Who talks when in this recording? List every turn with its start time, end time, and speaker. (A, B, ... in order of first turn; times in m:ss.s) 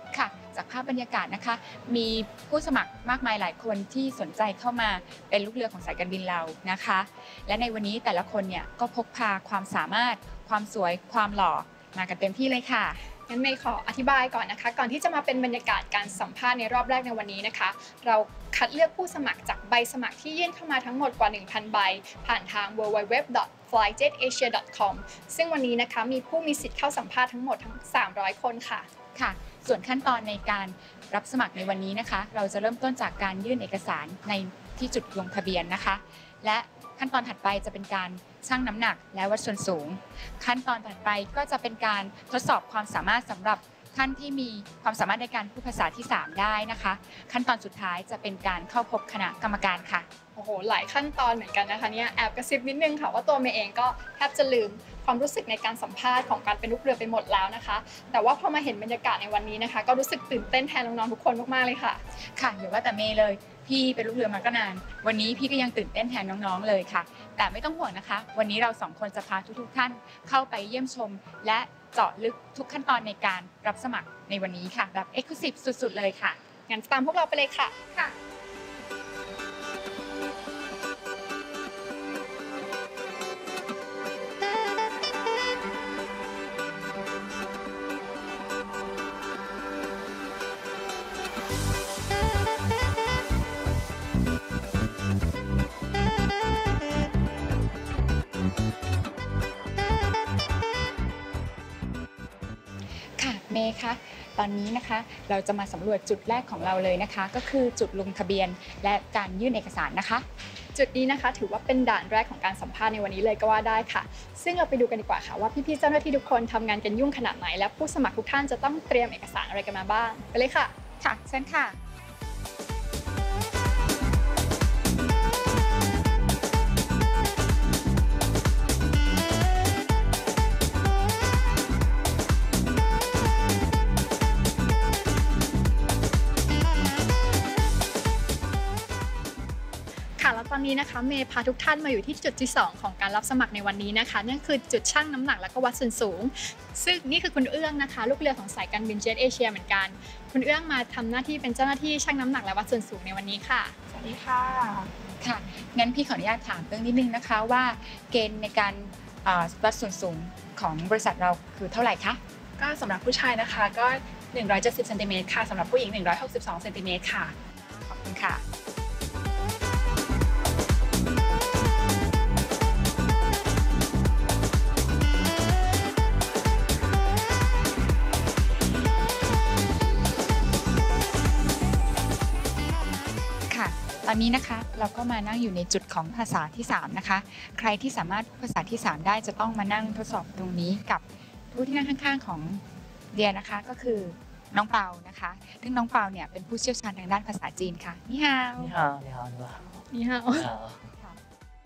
0:00.1-0:13.0 A
0:13.3-0:28.9 B
0:29.1-0:50.1 A
0:50.4-1:02.0 B
1:02.3-1:16.4 A
1:16.7-1:17.7 B
1:43.2-1:50.2 A
1:50.7-2:00.7 B
2:01.0-2:01.8 A
2:20.2-2:33.8 B
2:33.9-2:34.9 C
2:35.2-2:42.2 A
2:42.6-2:47.3 C
2:47.9-2:48.4 A
3:03.5-3:12.6 A
3:13.1-3:18.7 A
3:18.6-3:20.9 D
3:19.9-3:20.5 B